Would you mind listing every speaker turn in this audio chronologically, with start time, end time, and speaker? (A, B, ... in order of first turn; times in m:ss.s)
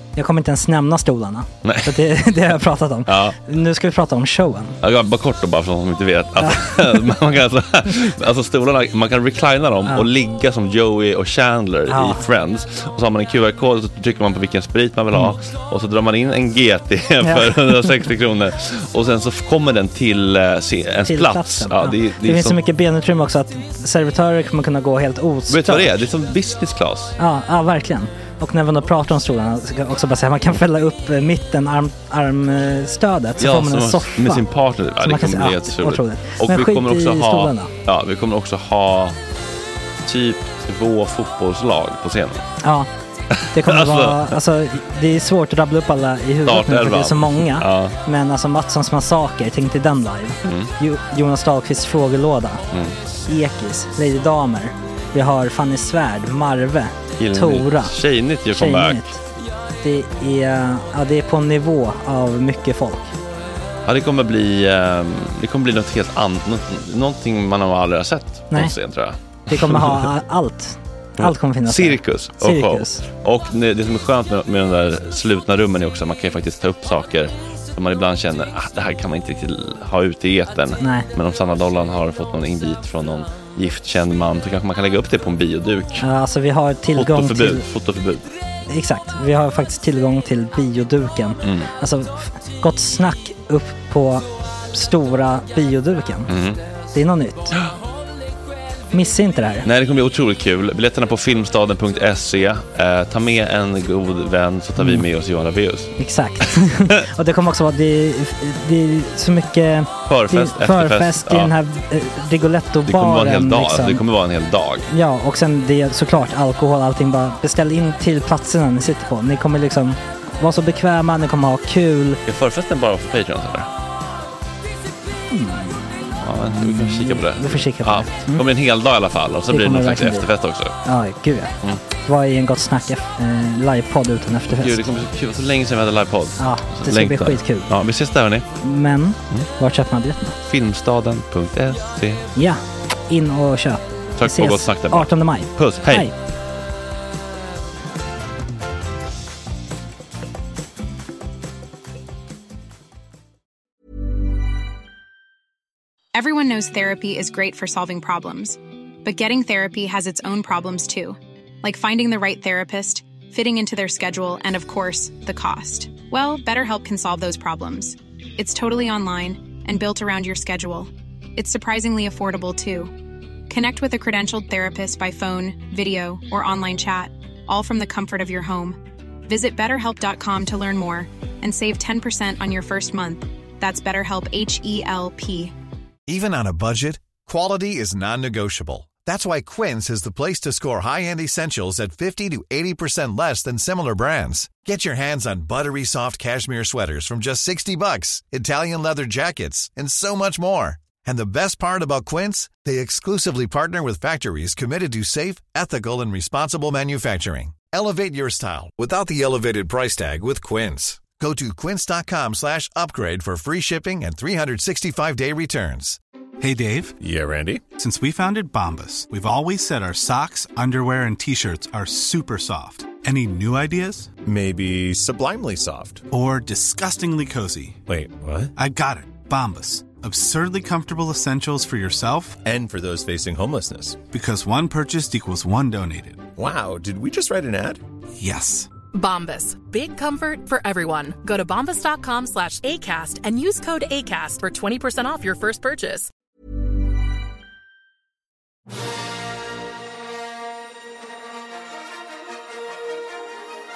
0:00.2-0:04.8 A
0:01.6-0:02.0 B
0:03.1-0:03.4 B
0:04.8-0:22.6 B
0:06.4-0:07.0 A
0:11.9-0:12.2 A
0:17.2-0:17.9 A
0:21.0-0:26.0 A
0:25.5-0:27.1 B
0:27.2-0:34.5 A
0:33.4-0:39.2 B
0:35.0-0:37.7 A
0:40.0-0:42.4 B
0:42.6-0:42.9 A
0:43.5-0:52.6 A
0:43.5-0:44.3 B
0:46.4-0:48.0 B
0:50.4-0:50.7 B
0:52.7-0:53.0 B
0:53.3-0:58.0 A
0:57.2-0:59.1 B
0:58.5-0:59.2 A
0:59.8-1:03.1 A
1:03.8-1:10.1 B
1:08.5-1:08.8 A
1:09.5-1:13.0 A
1:11.2-1:26.1 B
1:20.8-1:21.1 A
1:26.0-1:27.6 A
1:26.9-1:28.2 B
1:28.7-1:36.3 A
1:31.4-1:31.7 B
1:36.3-1:36.6 B
1:36.9-1:37.5 A
1:38.9-1:39.7 A
1:39.6-1:45.9 B
1:44.8-1:45.0 A
1:46.0-1:54.0 A
1:50.0-1:51.5 B
1:52.8-1:54.9 B
1:54.9-2:02.2 A
2:02.2-2:03.7 B
2:05.3-2:08.4 A
2:06.2-2:10.7 B
2:09.5-2:10.3 A
2:10.8-2:15.0 A
2:14.6-2:18.5 B
2:16.4-2:17.7 A
2:18.6-2:20.4 A
2:20.4-2:22.2 B
2:22.3-2:26.1 A
2:24.2-2:26.1 B
2:36.1-2:52.9 C
2:53.5-3:05.5 C
3:06.1-3:36.0 D
3:36.4-3:36.9 E
3:37.0-3:37.6 F
3:37.7-3:44.1 E
3:44.2-3:46.0 F
3:46.1-3:47.8 E
3:47.9-3:48.5 F
3:48.6-3:52.4 E
3:52.4-3:54.0 F
3:54.1-3:56.3 E
3:56.4-3:57.8 F
3:58.2-3:58.7 E
3:58.9-4:06.1 G